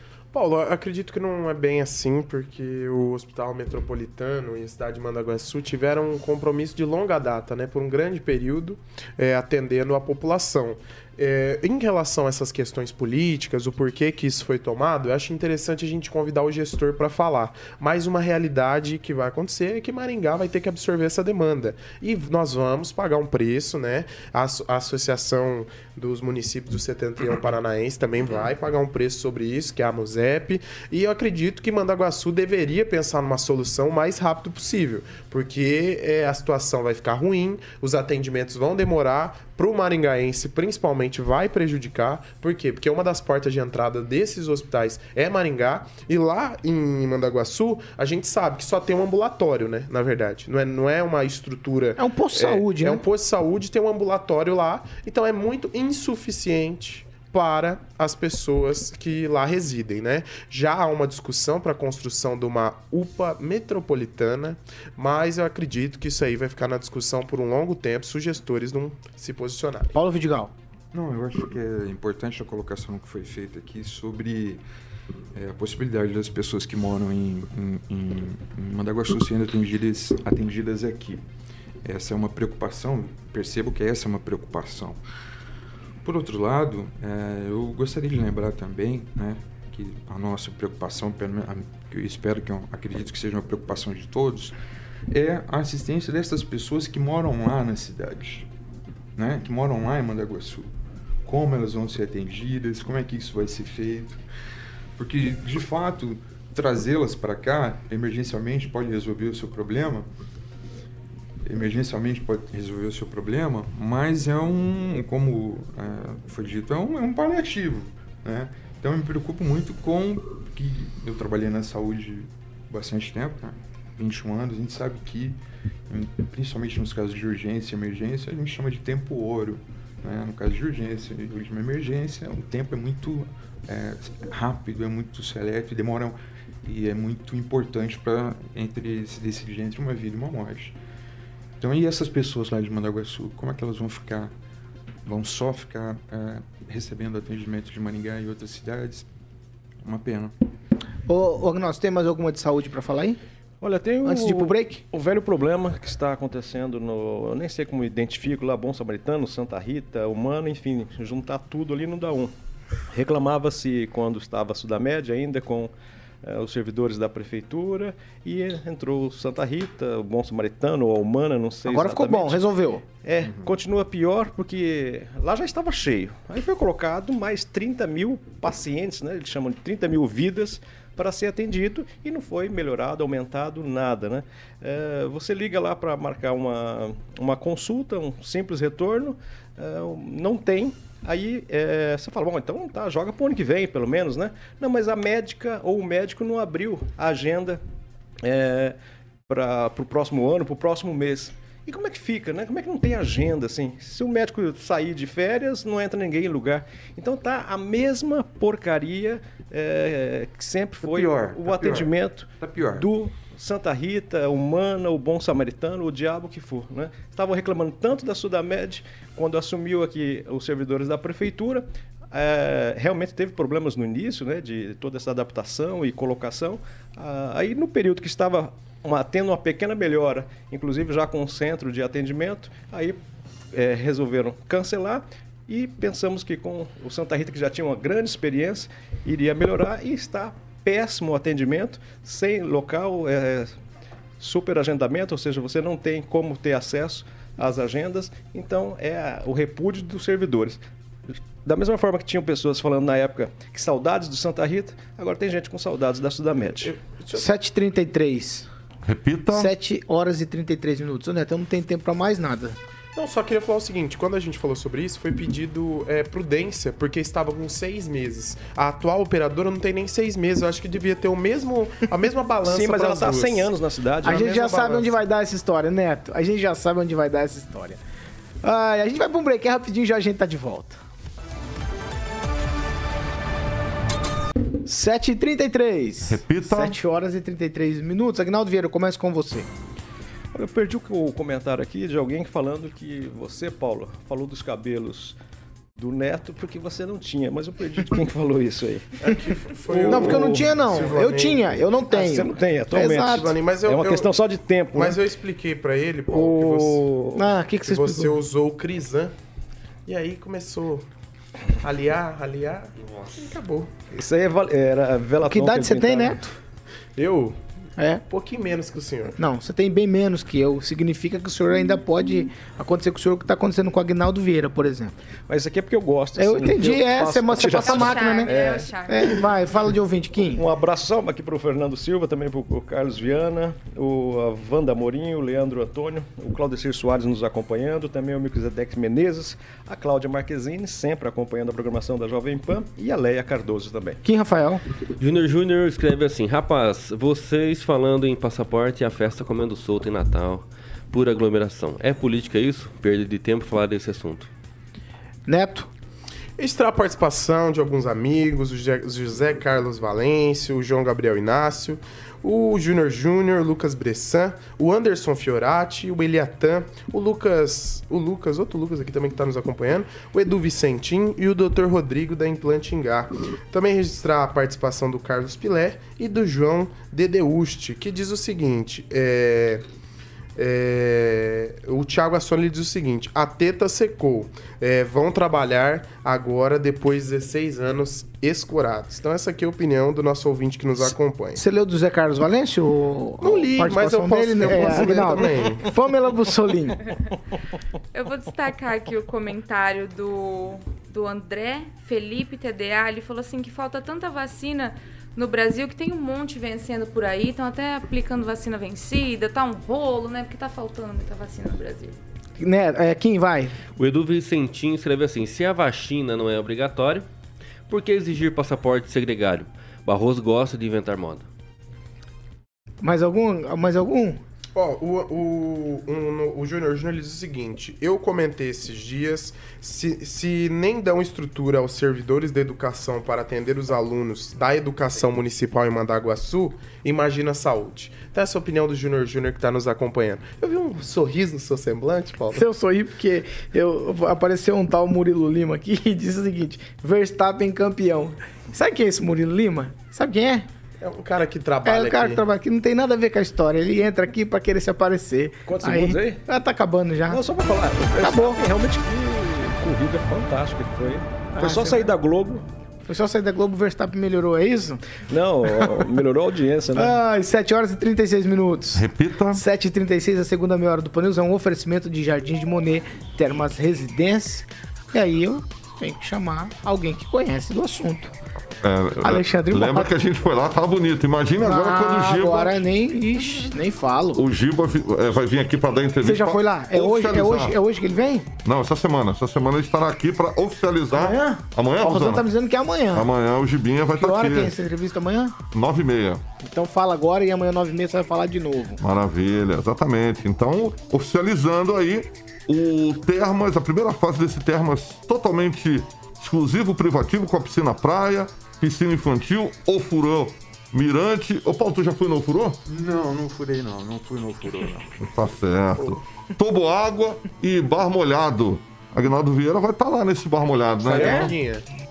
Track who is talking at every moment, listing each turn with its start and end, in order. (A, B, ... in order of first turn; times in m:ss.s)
0:00.3-1:09.9 A
0:52.0-0:53.0 B
1:09.9-1:10.5 B
1:10.9-1:14.6 C
1:15.3-1:21.2 C
1:21.8-1:25.0 C
1:26.0-1:34.5 C
1:35.1-1:38.5 C
1:39.2-1:40.7 C
1:41.2-1:44.2 C
1:45.0-1:50.1 C
1:51.4-2:05.4 C
2:05.9-2:20.7 C
2:21.6-2:24.3 C
2:25.0-2:29.1 C
2:29.8-2:30.3 C
2:31.1-2:33.2 B
2:33.6-2:42.3 D
2:34.0-2:34.8 B
2:42.9-2:52.4 D
2:51.6-2:52.8 B
2:53.0-3:17.6 D
3:18.2-3:18.8 D
3:19.3-3:53.0 D
3:30.8-3:32.9 C
3:53.5-4:03.6 D
4:04.2-4:16.8 D
4:16.6-4:17.2 A
4:17.1-4:18.5 B
4:18.8-4:19.5 E
4:19.3-4:22.6 B
4:23.0-4:33.5 A
4:32.4-4:34.9 D
4:34.0-4:37.8 B
4:38.4-4:40.8 B
4:44.6-4:49.5 B
4:46.1-4:46.8 E
4:50.3-4:55.2 D
4:55.8-4:59.0 D
4:59.0-5:01.5 A
4:59.7-5:00.5 D
4:59.8-5:03.3 B
5:01.9-5:05.0 D
5:03.0-5:04.1 A
5:04.7-5:06.9 A
5:06.1-5:07.3 D
5:07.1-5:08.2 B
5:07.6-5:09.1 A
5:09.9-5:10.8 A
5:11.6-5:13.7 A
5:13.9-5:16.3 D
5:15.2-5:16.3 B
5:17.0-5:17.4 A
5:17.8-5:18.0 B
5:18.1-5:19.2 A
5:19.2-5:24.9 B
5:25.3-5:29.1 D
5:26.2-5:30.4 B
5:27.4-5:29.1 F
5:30.3-5:44.0 D
5:44.0-5:44.6 B
5:45.0-5:54.3 G
5:55.2-5:55.7 B
5:56.4-6:19.6 A
6:20.4-6:31.4 A
6:31.4-6:36.8 B
6:33.2-6:35.6 A
6:37.9-6:52.0 F
6:52.4-6:53.6 B
6:53.8-6:57.0 G
6:57.7-7:01.2 G
7:02.8-7:04.2 B
7:04.6-7:22.4 A
7:22.3-7:30.5 B
7:30.8-7:32.2 A
7:31.6-7:37.2 B
7:35.4-7:36.2 D
7:37.1-7:42.4 D
7:38.0-7:38.4 B
7:41.4-7:41.9 B
7:42.8-7:44.8 B
7:45.1-7:47.0 D
7:46.7-7:58.2 B
7:48.7-7:49.4 E
7:58.6-8:02.6 E
7:59.0-7:59.9 B
8:01.4-8:04.2 B
8:04.1-8:07.6 E
8:06.0-8:08.3 B
8:08.4-8:12.3 E
8:10.9-8:13.1 B
8:12.9-8:14.6 E
8:14.0-8:15.4 B
8:15.5-8:16.2 E
8:16.4-8:18.8 B
8:18.8-8:32.6 E
8:32.7-8:35.0 C
8:35.0-8:41.4 E
8:40.8-8:41.6 A
8:40.9-8:41.3 B